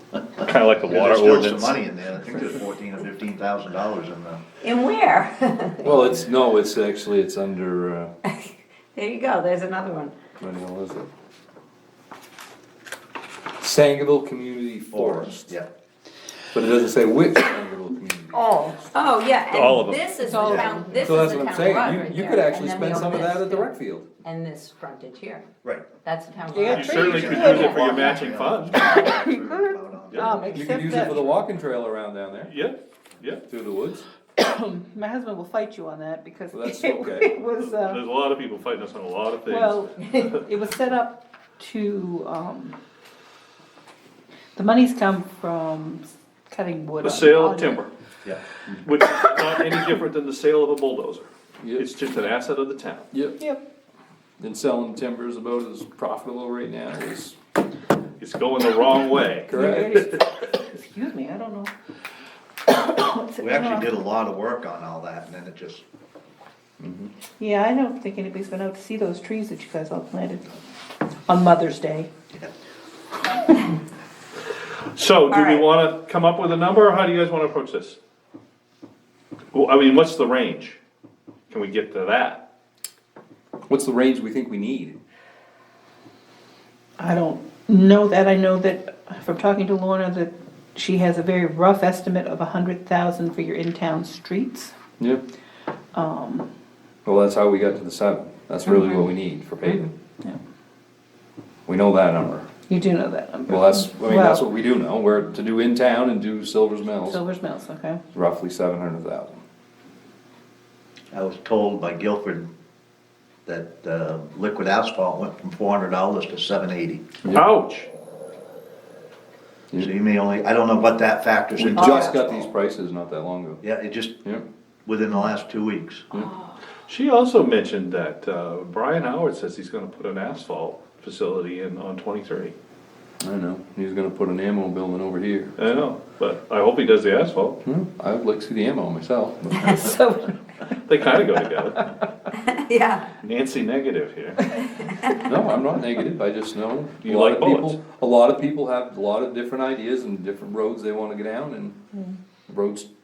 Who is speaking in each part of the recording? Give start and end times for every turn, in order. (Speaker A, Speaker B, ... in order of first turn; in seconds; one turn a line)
Speaker A: 0.4-1.8
Speaker B: 0.9-4.4
Speaker C: 4.6-6.1
Speaker D: 5.8-8.1
Speaker B: 5.9-6.2
Speaker C: 8.2-10.2
Speaker D: 10.4-11.1
Speaker D: 13.6-15.6
Speaker B: 14.9-15.7
Speaker D: 16.5-19.0
Speaker C: 18.3-23.7
Speaker A: 19.5-20.4
Speaker E: 20.4-21.1
Speaker B: 20.4-20.9
Speaker D: 21.0-24.1
Speaker C: 24.2-25.4
Speaker C: 26.0-28.1
Speaker E: 26.5-28.1
Speaker A: 26.7-29.0
Speaker B: 26.9-31.1
Speaker E: 28.8-31.3
Speaker D: 30.5-32.5
Speaker A: 32.5-33.4
Speaker D: 33.5-34.1
Speaker E: 34.4-38.0
Speaker D: 36.5-37.4
Speaker A: 37.6-40.4
Speaker E: 39.5-42.8
Speaker E: 44.5-47.8
Speaker A: 47.0-47.9
Speaker A: 48.8-53.1
Speaker D: 51.6-51.9
Speaker D: 53.1-53.4
Speaker D: 54.4-57.4
Speaker A: 58.2-60.2
Speaker D: 59.5-60.0
Speaker E: 59.5-60.2
Speaker E: 60.8-61.7
Speaker E: 62.7-63.9
Speaker B: 63.4-65.8
Speaker D: 66.8-67.1
Speaker E: 67.4-70.6
Speaker E: 71.3-72.1
Speaker A: 74.9-78.0
Speaker C: 75.3-75.7
Speaker A: 79.5-80.8
Speaker A: 81.5-82.4
Speaker D: 83.7-85.0
Speaker E: 87.0-94.8
Speaker E: 95.9-96.5
Speaker D: 97.0-99.9
Speaker C: 98.7-99.0
Speaker D: 101.7-102.5
Speaker E: 102.7-104.5
Speaker D: 103.5-107.2
Speaker E: 107.0-108.0
Speaker D: 108.1-109.4
Speaker B: 111.1-112.5
Speaker B: 113.5-117.0
Speaker A: 117.3-117.9
Speaker B: 119.8-122.5
Speaker D: 121.6-123.6
Speaker C: 121.8-122.2
Speaker B: 123.6-124.2
Speaker B: 124.8-126.0
Speaker C: 126.2-126.5
Speaker A: 126.9-132.5
Speaker D: 133.2-135.5
Speaker A: 135.6-137.6
Speaker D: 137.7-139.9
Speaker E: 139.6-140.7
Speaker A: 140.8-141.8
Speaker C: 142.4-143.1
Speaker A: 143.2-144.5
Speaker C: 144.8-145.2
Speaker D: 145.2-151.8
Speaker A: 147.0-147.8
Speaker D: 152.5-152.9